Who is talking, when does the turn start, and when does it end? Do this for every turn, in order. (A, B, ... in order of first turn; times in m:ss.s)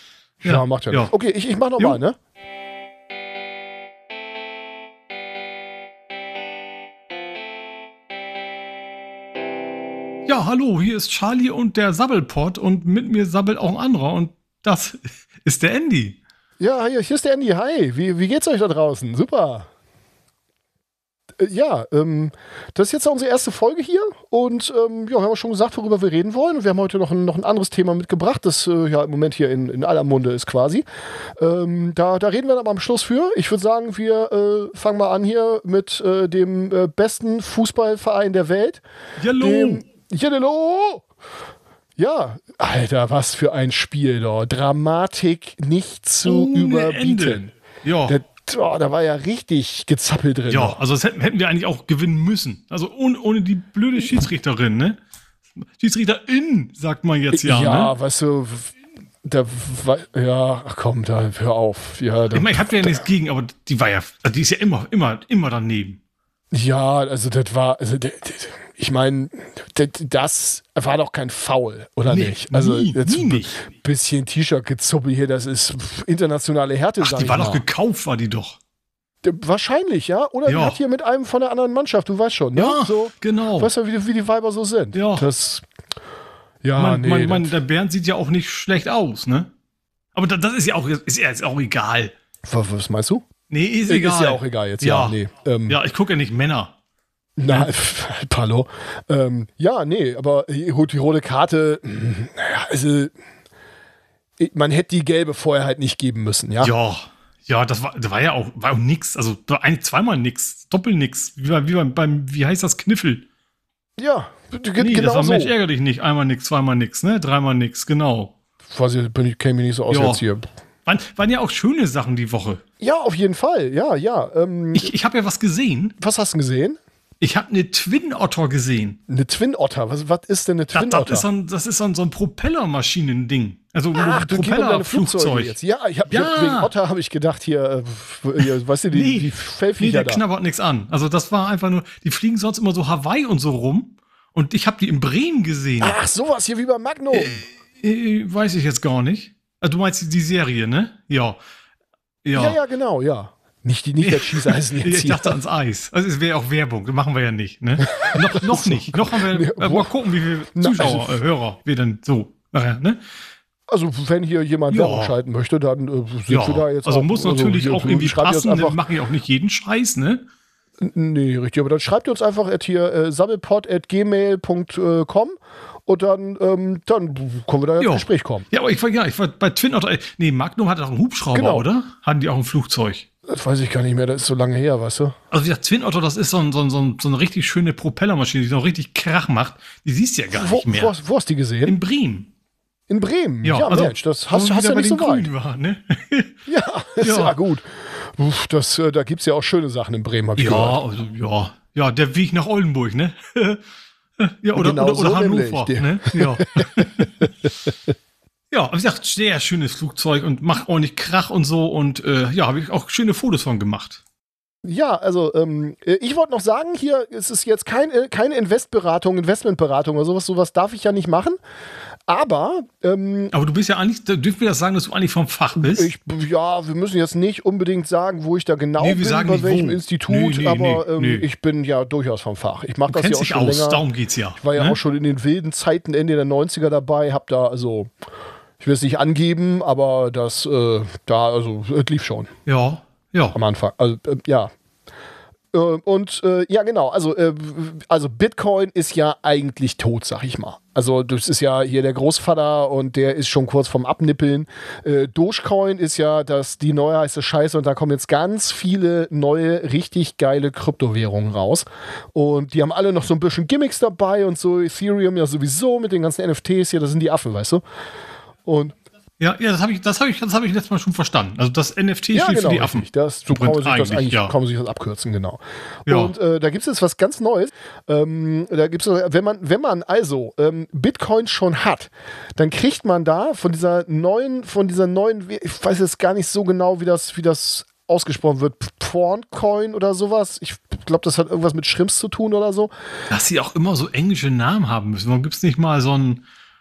0:00.4-0:01.1 A
0:00.4-0:02.2 B
0:10.2-0:16.2 A
0:16.6-0:19.7 B
0:21.4-0:30.8 B
0:31.4-0:38.8 B
0:39.2-0:39.8 A
0:39.4-0:41.0 B
0:42.0-0:47.5 B
0:46.2-0:48.2 A
0:48.1-0:50.8 B
0:50.5-0:55.0 A
0:55.6-0:57.9 A
0:57.3-0:58.7 B
0:59.2-1:03.0 B
1:02.3-1:06.0 A
1:06.5-1:17.6 B
1:12.1-1:13.6 A
1:17.0-1:18.6 A
1:19.2-1:25.6 B
1:20.4-1:20.8 A
1:22.6-1:23.7 A
1:24.9-1:25.2 A
1:26.6-1:27.6 B
1:26.7-1:29.5 A
1:30.1-1:32.1 A
1:32.5-1:33.2 B
1:33.5-1:36.7 A
1:33.9-1:35.8 B
1:37.4-1:43.1 B
1:44.4-1:46.7 B
1:46.6-1:53.2 A
1:54.0-1:55.5 B
1:54.8-1:58.3 A
1:58.7-2:00.5 B
1:59.9-2:00.2 A
2:00.8-2:02.6 A
2:02.8-2:04.9 B
2:04.7-2:05.9 A
2:06.0-2:06.8 B
2:07.2-2:09.0 A
2:09.1-2:11.3 B
2:10.7-2:15.6 A
2:13.9-2:20.2 B
2:16.1-2:16.7 A
2:18.4-2:26.0 A
2:25.8-2:27.4 B
2:27.1-2:31.4 A
2:32.2-2:32.6 A
2:32.3-2:35.4 B
2:34.0-2:43.0 A
2:37.9-2:39.9 B
2:40.5-2:41.2 B
2:43.7-2:48.8 B
2:44.7-2:45.2 A
2:46.3-2:50.2 A
2:50.8-2:55.3 B
2:55.8-2:58.5 B
2:57.8-3:03.0 A
3:01.3-3:01.7 B
3:03.3-3:05.1 B
3:05.3-3:10.9 A
3:10.3-3:11.8 B
3:11.6-3:12.3 A
3:12.9-3:15.3 B
3:13.4-3:16.3 A
3:16.4-3:20.8 B
3:17.0-3:17.4 A
3:20.4-3:23.6 A
3:24.2-3:27.1 A
3:24.5-3:27.9 B
3:28.5-3:34.0 A
3:34.6-3:41.4 B
3:42.1-3:43.3 B
3:43.3-3:45.9 A
3:45.6-3:53.8 B
3:48.8-3:51.2 A
3:52.9-3:54.8 A
3:54.4-3:57.9 B
3:58.6-4:02.3 B
4:02.4-4:03.4 A
4:03.3-4:04.5 B
4:05.5-4:27.6 B
4:28.4-4:28.7 B
4:29.2-4:34.3 A
4:32.1-4:52.7 B
4:35.9-4:36.1 A
4:53.1-4:56.2 A